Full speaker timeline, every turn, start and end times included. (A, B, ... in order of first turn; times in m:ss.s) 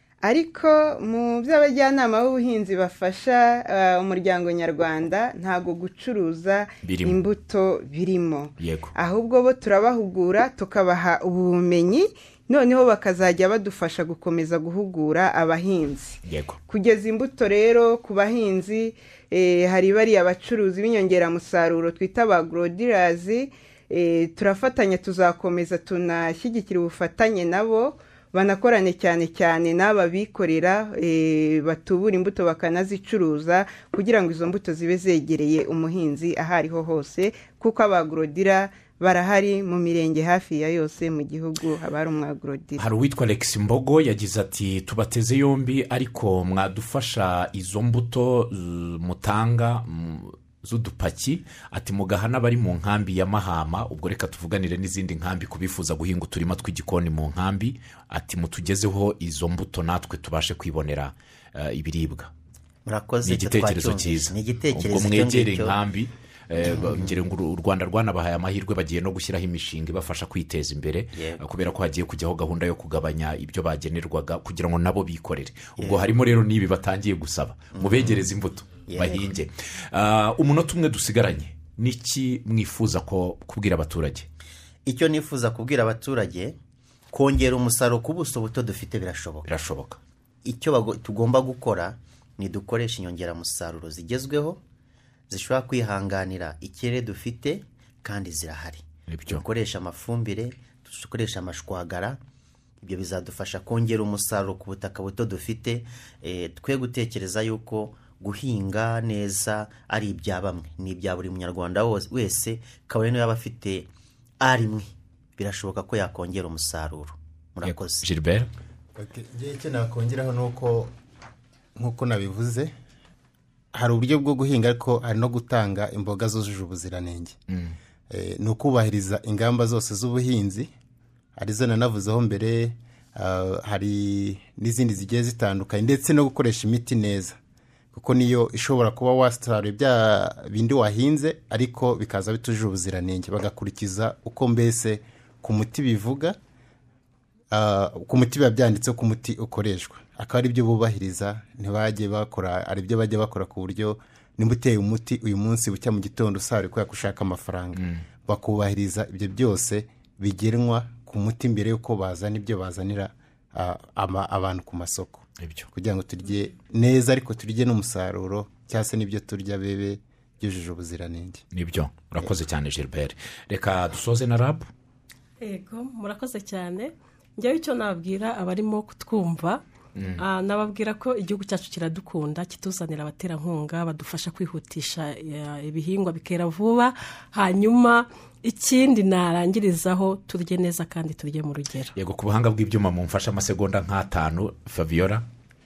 0:00.2-0:42.8 A
0:06.8-0:07.2 B
0:08.6-0:08.9 B
0:16.2-0:16.6 B
0:42.8-1:02.3 B
1:02.9-1:05.8 C
1:03.2-1:24.3 B
1:06.6-1:07.2 C
1:11.2-1:11.4 C
1:15.8-1:16.1 C
1:17.8-1:18.2 C
1:18.9-1:19.3 C
1:24.9-1:26.6 C
1:27.1-1:29.5 C
1:29.5-1:30.0 B
1:30.4-1:34.6 C
1:35.3-1:42.2 C
1:39.1-1:39.4 B
1:42.8-1:53.9 C
1:54.4-1:58.1 C
1:57.6-1:58.5 B
1:59.0-2:00.9 D
2:01.8-2:02.7 D
2:03.7-2:07.4 D
2:07.5-2:07.8 B
2:08.1-2:10.7 D
2:11.4-2:17.4 D
2:17.9-2:26.4 D
2:27.5-2:51.4 D
2:37.8-2:38.0 B
2:45.4-2:45.7 B
2:51.5-2:54.7 B
2:55.4-2:59.6 E
3:00.2-3:12.0 E
3:12.0-3:15.2 B